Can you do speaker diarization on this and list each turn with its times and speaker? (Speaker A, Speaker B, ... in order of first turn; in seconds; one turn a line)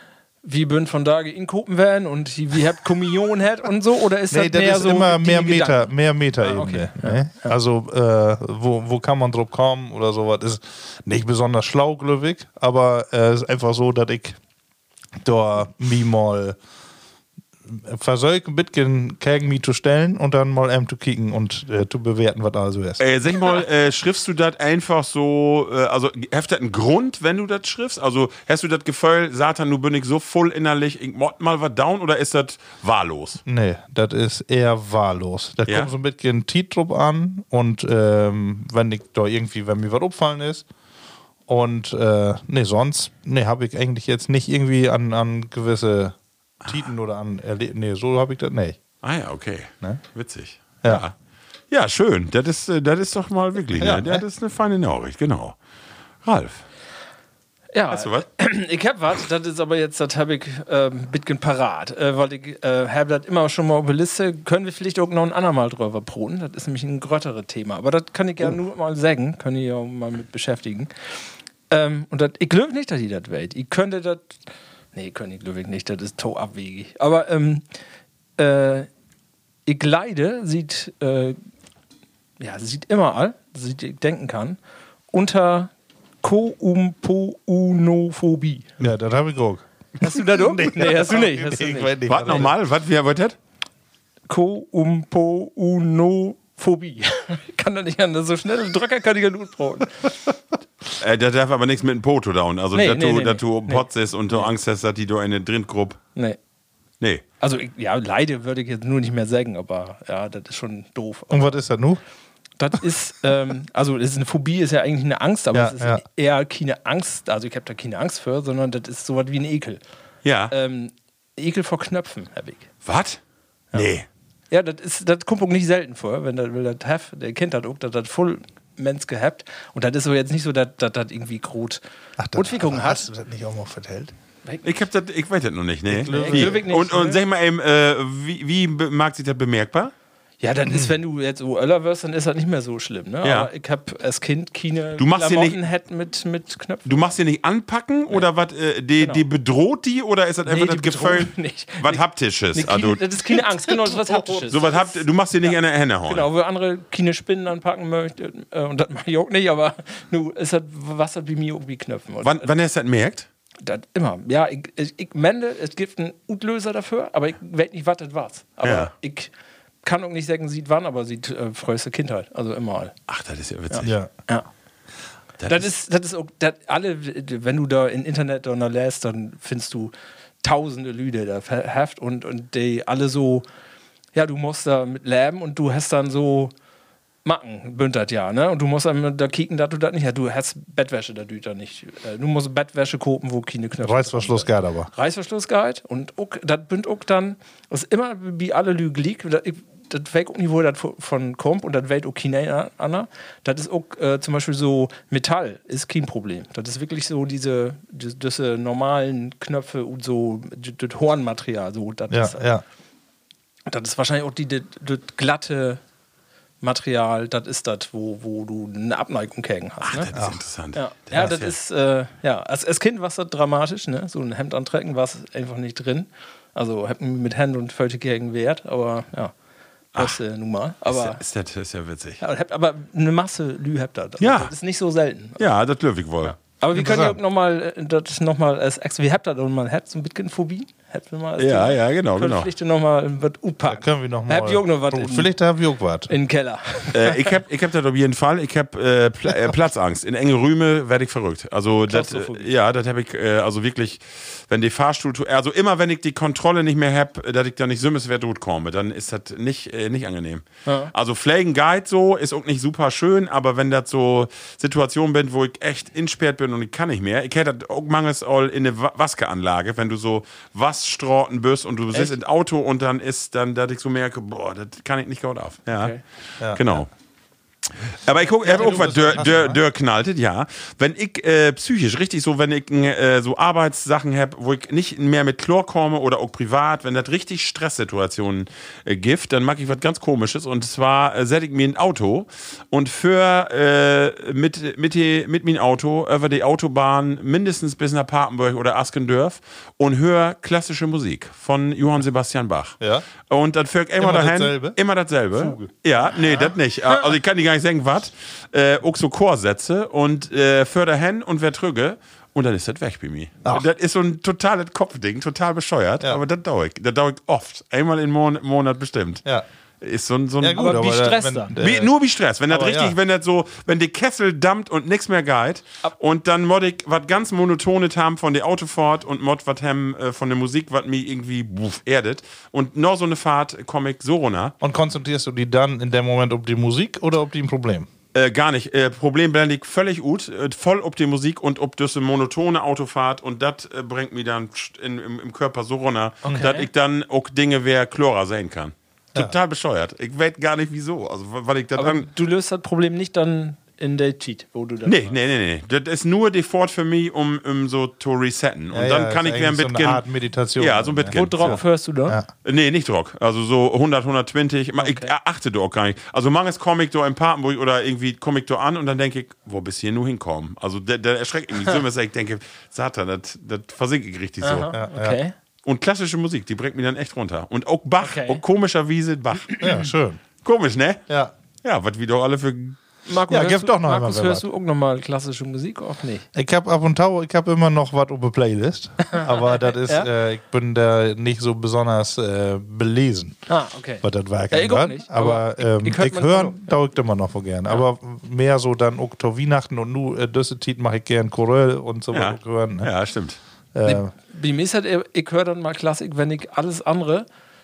Speaker A: 0.4-7.5
Speaker B: 4.3-14.4
Speaker B: 15.2-16.6
Speaker B: 17.7-23.0
Speaker C: 23.0-33.4
Speaker B: 33.4-40.6
Speaker B: 41.5-48.8
Speaker C: 49.0-51.1
Speaker C: 51.7-55.6
Speaker B: 53.8-54.2
Speaker C: 56.2-56.6
Speaker A: 57.7-70.9
Speaker C: 57.9-58.2
Speaker A: 71.7-74.4
Speaker A: 74.9-77.6
Speaker A: 78.4-78.9
Speaker A: 79.7-81.4
Speaker A: 82.4-84.6
Speaker A: 85.1-85.7
Speaker A: 86.2-88.7
Speaker B: 88.8-92.5
Speaker A: 90.0-92.0
Speaker C: 92.1-93.4
Speaker A: 94.3-100.2
Speaker C: 101.0-106.0
Speaker A: 102.7-104.5
Speaker A: 107.4-111.5
Speaker B: 111.3-112.0
Speaker A: 112.6-119.8
Speaker B: 115.5-116.0
Speaker C: 120.2-120.5
Speaker A: 120.5-122.7
Speaker C: 122.8-123.2
Speaker C: 123.7-124.0
Speaker A: 124.5-131.8
Speaker B: 132.2-134.1
Speaker A: 132.3-133.1
Speaker A: 134.4-134.8
Speaker C: 134.6-139.9
Speaker B: 135.9-136.6
Speaker A: 136.1-137.2
Speaker A: 140.4-147.1
Speaker C: 143.2-143.5
Speaker C: 145.0-145.6
Speaker C: 146.8-153.3
Speaker A: 149.0-149.2
Speaker A: 150.4-152.0
Speaker A: 152.5-155.5
Speaker C: 154.5-156.3
Speaker A: 156.1-162.5
Speaker C: 162.2-163.3
Speaker A: 163.6-169.3
Speaker C: 168.6-168.9
Speaker A: 169.8-172.9
Speaker C: 173.1-173.9
Speaker A: 173.7-174.5
Speaker B: 173.8-174.1
Speaker C: 175.4-175.7
Speaker A: 175.5-183.4
Speaker A: 184.1-186.5
Speaker A: 187.2-212.4
Speaker B: 193.8-194.9
Speaker B: 212.1-212.6
Speaker A: 213.7-215.8
Speaker A: 216.6-220.1
Speaker C: 219.8-221.5
Speaker A: 220.7-229.3
Speaker A: 229.9-231.2
Speaker C: 230.8-232.2
Speaker A: 232.2-235.4
Speaker C: 234.2-234.5
Speaker C: 235.4-236.3
Speaker A: 236.2-245.3
Speaker B: 236.7-237.2
Speaker C: 241.4-242.5
Speaker B: 243.7-246.1
Speaker A: 246.1-247.4
Speaker C: 246.9-275.9
Speaker A: 251.9-252.5
Speaker A: 260.6-260.9
Speaker B: 276.4-276.8
Speaker C: 276.5-276.9
Speaker C: 278.0-319.2
Speaker B: 278.4-279.6
Speaker B: 302.8-303.1
Speaker B: 304.0-304.8
Speaker B: 305.3-305.7
Speaker C: 319.8-320.7
Speaker B: 320.4-321.9
Speaker A: 320.6-321.5
Speaker C: 321.6-334.5
Speaker B: 322.5-323.0
Speaker B: 334.6-337.9
Speaker C: 338.1-352.1
Speaker A: 346.2-346.7
Speaker A: 351.8-355.1
Speaker C: 354.8-360.0
Speaker B: 358.7-362.3
Speaker C: 360.6-361.5
Speaker A: 361.1-362.2
Speaker C: 362.4-374.7
Speaker A: 364.8-365.1
Speaker A: 374.4-375.3
Speaker B: 374.7-375.2
Speaker C: 375.6-379.5
Speaker A: 378.0-378.4
Speaker A: 379.5-379.9
Speaker B: 379.6-380.2
Speaker C: 380.4-381.0
Speaker B: 381.1-381.3
Speaker C: 381.6-382.8
Speaker A: 383.1-386.2
Speaker B: 383.3-384.4
Speaker B: 386.3-393.4
Speaker A: 389.1-390.1
Speaker A: 393.5-396.6
Speaker B: 394.0-402.9
Speaker C: 402.1-403.4
Speaker B: 403.7-404.1
Speaker A: 403.8-407.2